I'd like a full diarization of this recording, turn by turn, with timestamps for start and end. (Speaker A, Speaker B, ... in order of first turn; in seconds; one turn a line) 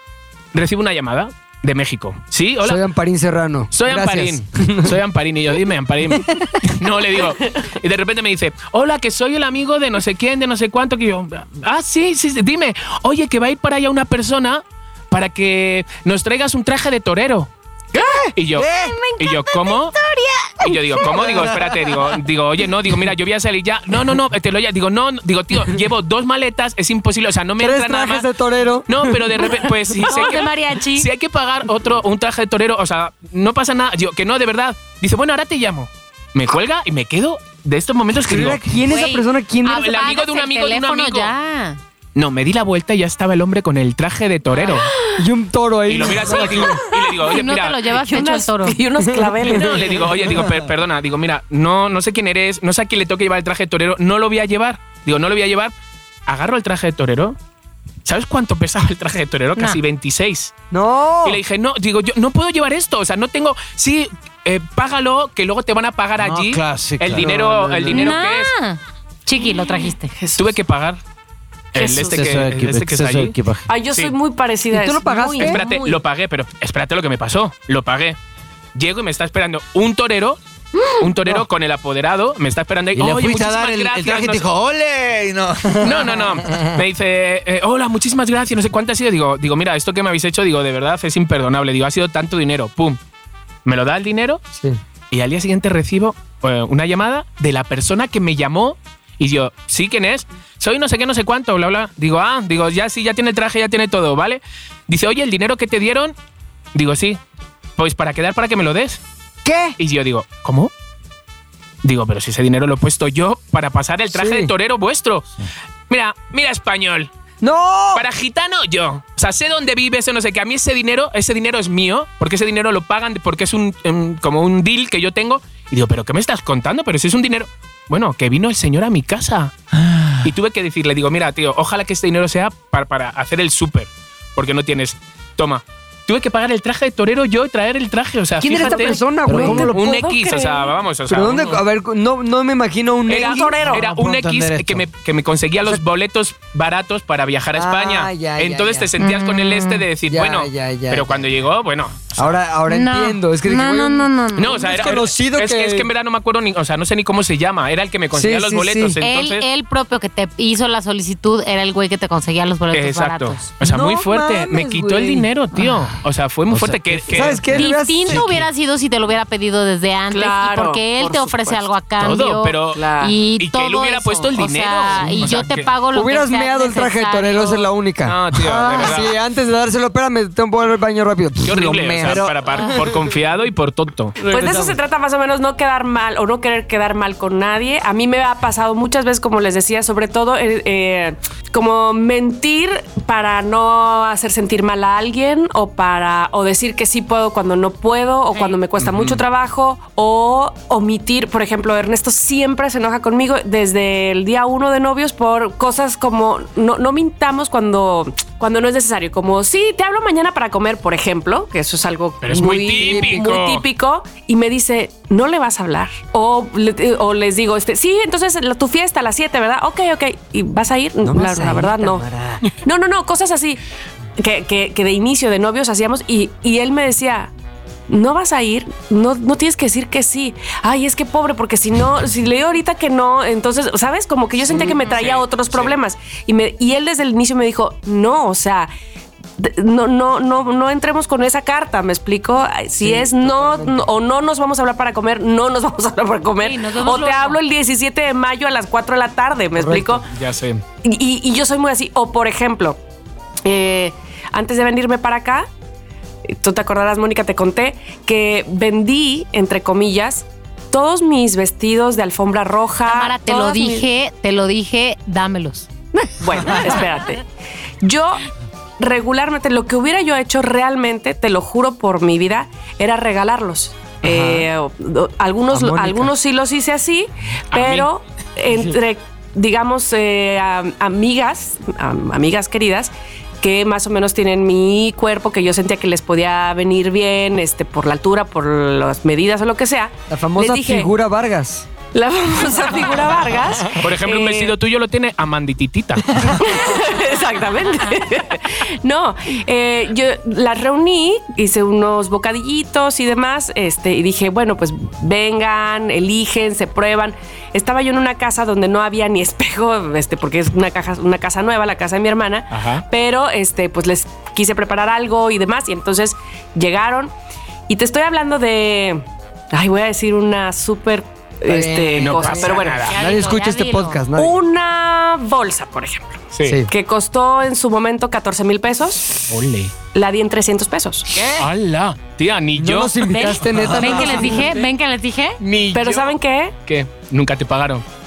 Speaker A: 0.5-2.8
Speaker B: 2.6-5.0
Speaker A: 3.7-17.5
Speaker B: 6.2-6.4
Speaker B: 18.0-18.3
Speaker A: 18.3-19.9
Speaker C: 18.6-18.9
Speaker D: 18.8-20.7
Speaker A: 20.6-28.3
Speaker C: 21.0-21.8
Speaker B: 27.6-29.6
Speaker A: 28.9-38.8
Speaker D: 30.0-31.1
Speaker B: 38.2-39.9
Speaker D: 38.9-41.8
Speaker A: 39.6-41.3
Speaker A: 42.1-44.9
Speaker D: 44.6-44.9
Speaker B: 45.2-46.8
Speaker A: 45.9-47.8
Speaker D: 47.1-48.8
Speaker E: 47.9-50.2
Speaker B: 49.0-49.9
Speaker A: 49.5-55.7
Speaker A: 56.3-57.4
Speaker A: 58.0-60.5
Speaker B: 60.7-61.4
Speaker A: 61.2-68.5
Speaker C: 66.2-67.3
Speaker B: 67.1-68.1
Speaker D: 67.9-70.1
Speaker E: 70.2-70.4
Speaker A: 70.3-71.0
Speaker A: 71.7-73.3
Speaker E: 71.8-72.1
Speaker C: 71.8-73.7
Speaker E: 73.7-76.0
Speaker B: 74.7-75.6
Speaker A: 75.4-78.2
Speaker A: 78.7-80.4
Speaker A: 81.0-84.4
Speaker C: 82.9-86.4
Speaker A: 85.8-93.0
Speaker A: 93.6-94.4
Speaker A: 95.1-106.1
Speaker A: 106.7-107.2
Speaker A: 107.8-109.0
Speaker B: 109.4-109.8
Speaker A: 109.8-110.7
Speaker A: 111.8-115.3
Speaker B: 114.1-114.5
Speaker A: 115.9-117.1
Speaker B: 117.4-118.0
Speaker A: 117.9-129.5
Speaker C: 129.8-130.3
Speaker A: 130.2-141.6
Speaker B: 138.4-139.7
Speaker E: 138.5-140.7
Speaker C: 139.2-139.8
Speaker B: 141.1-143.6
Speaker A: 143.1-152.2
Speaker E: 143.1-143.8
Speaker C: 143.6-144.8
Speaker B: 147.5-148.9
Speaker D: 149.0-149.9
Speaker B: 150.1-151.2
Speaker B: 152.2-155.9
Speaker D: 152.7-154.7
Speaker A: 154.3-159.4
Speaker B: 158.1-159.0
Speaker D: 159.0-163.6
Speaker A: 162.7-167.7
Speaker B: 163.6-165.3
Speaker C: 166.5-167.5
Speaker B: 167.1-168.2
Speaker D: 167.5-177.7
Speaker C: 168.1-168.4
Speaker E: 170.1-171.6
Speaker A: 172.0-172.8
Speaker E: 172.7-173.2
Speaker A: 173.4-175.7
Speaker C: 175.2-175.5
Speaker B: 175.9-182.9
Speaker A: 178.0-179.2
Speaker A: 181.4-184.2
Speaker C: 182.0-182.3
Speaker B: 184.2-184.8
Speaker E: 184.2-223.6
Speaker D: 198.3-198.6
Speaker A: 198.8-199.2
Speaker A: 212.2-213.6
Speaker B: 221.0-222.4
Speaker E: 224.2-227.3
Speaker E: 227.9-238.7
Speaker A: 234.5-235.8
Speaker D: 234.7-235.0
Speaker E: 239.4-250.1
Speaker B: 242.8-243.9
Speaker D: 246.4-247.4
Speaker B: 249.6-250.0
Speaker A: 250.1-250.6
Speaker E: 250.8-252.8
Speaker E: 253.4-255.5
Speaker E: 256.2-263.9
Speaker D: 262.9-265.7
Speaker E: 266.0-267.2
Speaker E: 267.8-268.2
Speaker E: 268.8-290.9
Speaker B: 274.0-274.5
Speaker B: 275.5-276.1
Speaker A: 277.5-277.9
Speaker B: 290.1-291.6
Speaker E: 291.9-294.5
Speaker A: 293.8-296.4
Speaker E: 296.2-317.1
Speaker A: 312.5-312.8
Speaker E: 317.7-322.9
Speaker B: 321.5-324.4
Speaker A: 321.9-323.0
Speaker D: 322.8-324.0
Speaker E: 324.1-329.2
Speaker A: 326.3-326.6
Speaker A: 329.3-329.7
Speaker E: 329.9-331.3
Speaker A: 331.3-334.4
Speaker B: 332.6-334.6
Speaker D: 333.1-335.4
Speaker C: 333.5-334.0
Speaker A: 335.4-336.1
Speaker E: 335.7-336.6
Speaker A: 336.7-337.8